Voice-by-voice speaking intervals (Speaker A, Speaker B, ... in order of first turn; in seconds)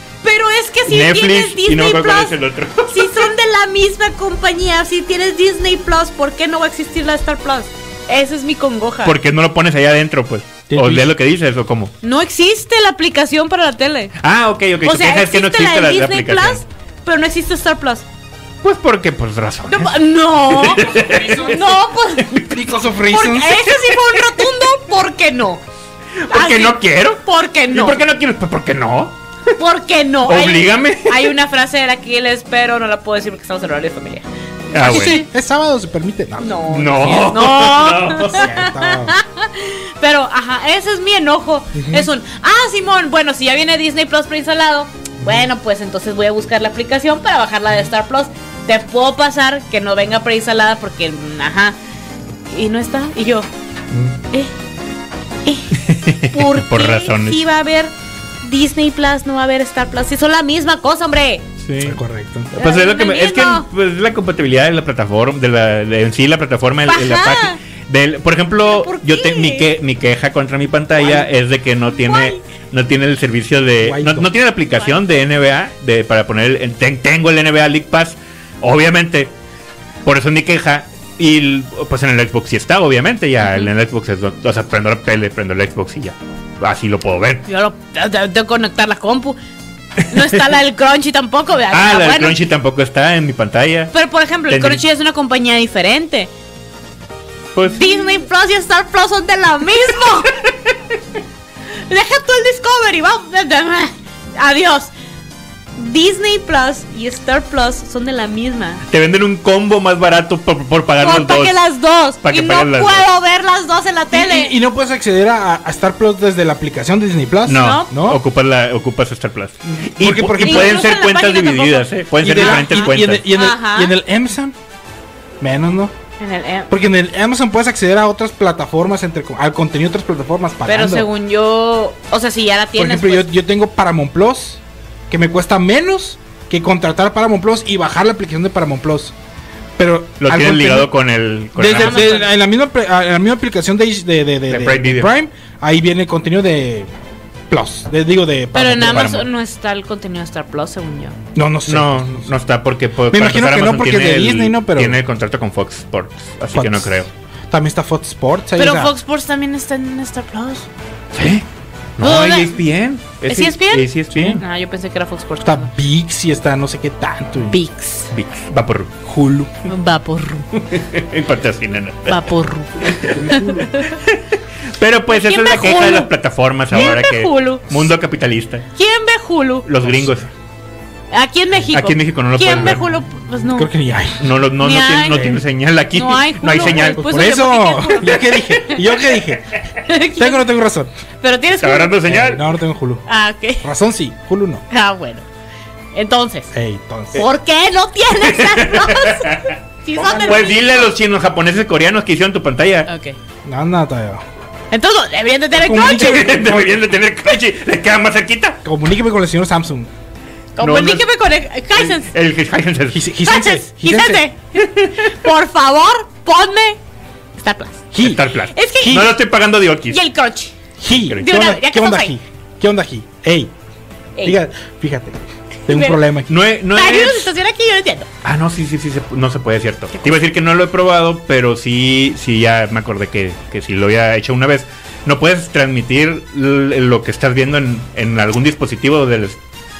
Speaker A: 0.2-2.4, 2.9-9.2, 12.0-14.1, 14.8-18.0, 19.7-22.4, 23.1-25.6, 26.3-28.0, 29.6-35.3, 36.4-51.7, 52.5-53.5, 55.4-61.4, 62.6-63.7, 66.9-67.6, 68.6-69.7, 72.0-72.4, 87.5-89.4, 90.1-92.4, 93.9-96.3, 97.7-100.4, 101.9-104.9, 105.8-108.8, 111.0-114.5, 117.5-117.9, 120.4-123.9, 126.2-126.7, 130.7-133.3, 141.7-142.3, 148.5-151.2, 158.6-160.7, 162.0-162.6, 163.3-165.7, 167.5-168.1, 169.7-170.5, 172.1-173.9, 175.1-176.1, 176.7-177.7, 178.7-179.7, 181.1-183.7, 184.6-185.4, 185.9-189.1, 189.8-190.5, 191.2-191.9, 193.1-193.7, 194.7-195.2, 195.9-196.5, 197.1-200.9, 202.9-203.2, 204.7-206.3, 210.6-212.1, 213.2-216.8, 217.4-217.8, 218.4-219.1, 219.9-220.5, 221.1-222.1, 225.7-226.0, 226.7-228.1
Speaker B: 0.9-3.3, 9.0-11.9, 14.2-16.6, 18.6-19.9, 20.5-21.6, 22.2-22.6, 23.7-24.5, 26.2-29.1, 30.2-31.3, 34.7-35.2, 36.7-38.5, 55.7-57.4, 61.6-62.0, 62.5-79.3, 80.0-87.4, 91.7-93.9, 94.5-94.8, 97.5-98.0, 108.9-111.6, 112.2-113.1, 117.5-123.2, 140.2-142.2, 144.5-145.1, 148.8-149.3, 151.7-157.1, 161.1-161.4, 162.0-164.4, 168.1-168.9, 170.7-172.2, 173.1-174.2, 174.8-178.7, 179.7-180.3, 181.7-182.8, 184.2-187.0, 191.6-192.4, 198.2-202.9, 205.9-208.6, 210.6-211.1, 211.7-213.1, 218.0-220.0, 226.3-227.3, 228.2-239.4
Speaker C: 10.7-11.1, 22.4-23.6, 34.9-36.7, 38.3-39.2, 41.7-42.1, 45.2-45.5, 61.8-62.5, 71.0-71.3, 73.8-74.3, 114.1-118.2, 119.8-120.8, 122.2-124.5, 125.4-125.9, 126.7-131.1, 132.8-139.1, 139.8-140.9, 141.6-146.9, 147.5-149.2, 151.3-152.3, 153.1-155.0, 156.5-158.9, 165.4-167.6, 169.0-169.5, 173.2-173.6, 179.8-180.2, 183.5-184.3, 185.1-185.4, 186.5-189.5, 190.2-190.9, 192.1-193.0, 193.6-194.6, 196.5-197.2, 200.0-200.4, 203.4-204.2, 205.6-206.8, 208.6-209.9, 212.9-214.2, 217.9-218.2, 218.8-219.2, 220.8-223.5, 224.2-226.3